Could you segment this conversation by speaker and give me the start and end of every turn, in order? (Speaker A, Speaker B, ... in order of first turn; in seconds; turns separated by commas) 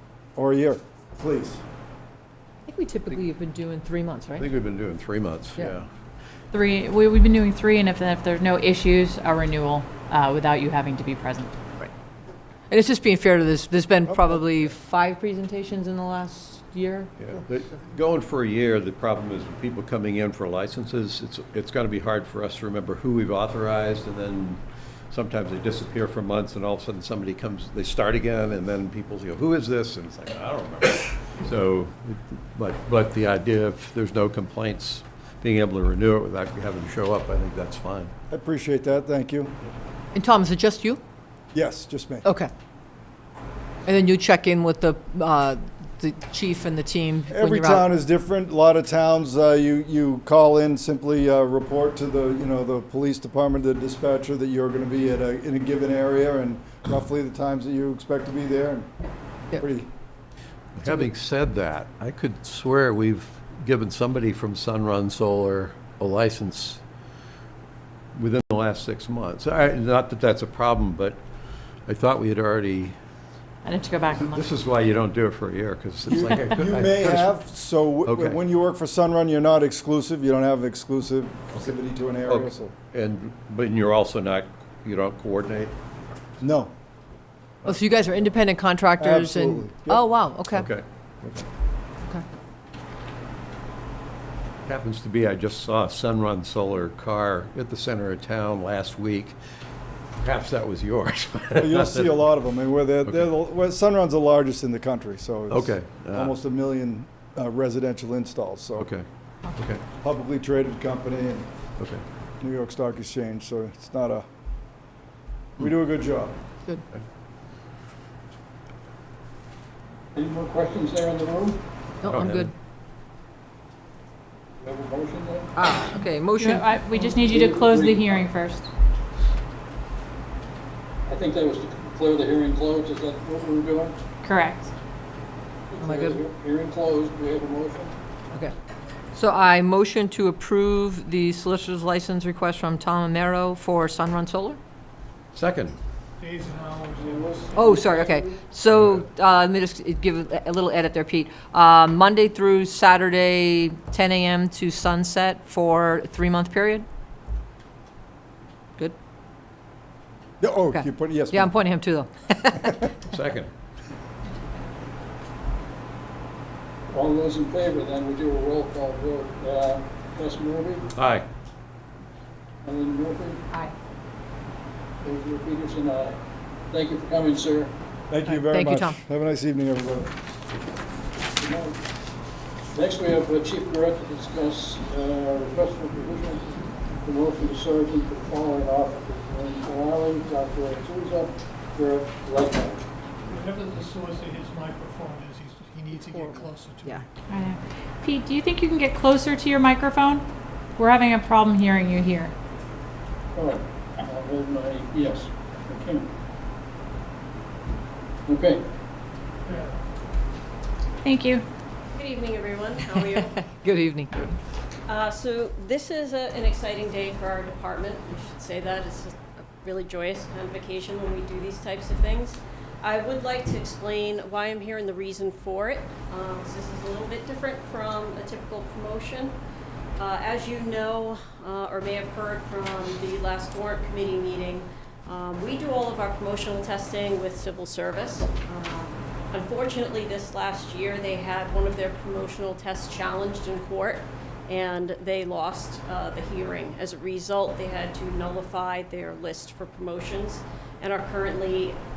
Speaker A: 0.3-1.6, Speaker B: 2.7-4.5, Speaker C: 4.4-5.9, Speaker D: 6.5-11.5, Speaker B: 12.7-17.1, Speaker C: 17.2-38.1, Speaker A: 38.3-39.5, Speaker B: 40.1-41.0, Speaker A: 41.5-42.2, Speaker B: 42.2-42.5, Speaker B: 43.9-47.9, Speaker A: 47.3-58.9, Speaker A: 59.5-59.9, Speaker C: 60.7-66.8, Speaker C: 68.2-71.2, Speaker C: 71.8-73.0, Speaker D: 73.7-74.5, Speaker C: 74.2-77.4, Speaker A: 76.1-82.7, Speaker C: 78.1-78.4, Speaker C: 82.2-85.7, Speaker A: 86.4-86.7, Speaker B: 87.7-90.7, Speaker A: 89.0-90.0, Speaker C: 90.5-90.8, Speaker C: 94.7-99.4, Speaker C: 100.2-102.2, Speaker A: 101.6-108.9, Speaker C: 105.5-106.3, Speaker C: 108.8-109.8, Speaker A: 110.0-111.5, Speaker C: 111.8-112.0, Speaker A: 112.4-114.2, Speaker A: 115.6-116.3, Speaker E: 120.2-121.6, Speaker B: 122.0-122.5, Speaker C: 122.0-122.5, Speaker E: 124.6-125.5, Speaker B: 125.5-127.2, Speaker D: 126.4-128.7, Speaker E: 126.9-128.3, Speaker E: 131.1-134.0, Speaker D: 134.2-134.7, Speaker E: 135.7-137.9, Speaker B: 135.8-136.2, Speaker B: 139.1-144.6, Speaker C: 145.3-145.8, Speaker F: 146.2-147.6, Speaker E: 147.0-148.5, Speaker B: 147.6-156.9, Speaker A: 160.4-161.5, Speaker B: 160.7-162.8, Speaker C: 163.1-163.5, Speaker E: 166.9-170.8, Speaker C: 170.9-171.2, Speaker E: 172.6-173.4, Speaker E: 175.0-176.2, Speaker E: 176.7-177.7, Speaker A: 178.1-180.1, Speaker B: 178.3-179.0, Speaker E: 181.4-181.8, Speaker E: 182.7-192.8, Speaker F: 193.2-196.9, Speaker B: 196.1-197.0, Speaker D: 197.3-200.2, Speaker D: 200.8-202.3, Speaker E: 203.3-206.1, Speaker E: 208.3-208.6, Speaker D: 211.0-211.4, Speaker G: 211.9-213.4, Speaker B: 213.1-214.3, Speaker G: 214.9-229.3, Speaker G: 230.0-251.8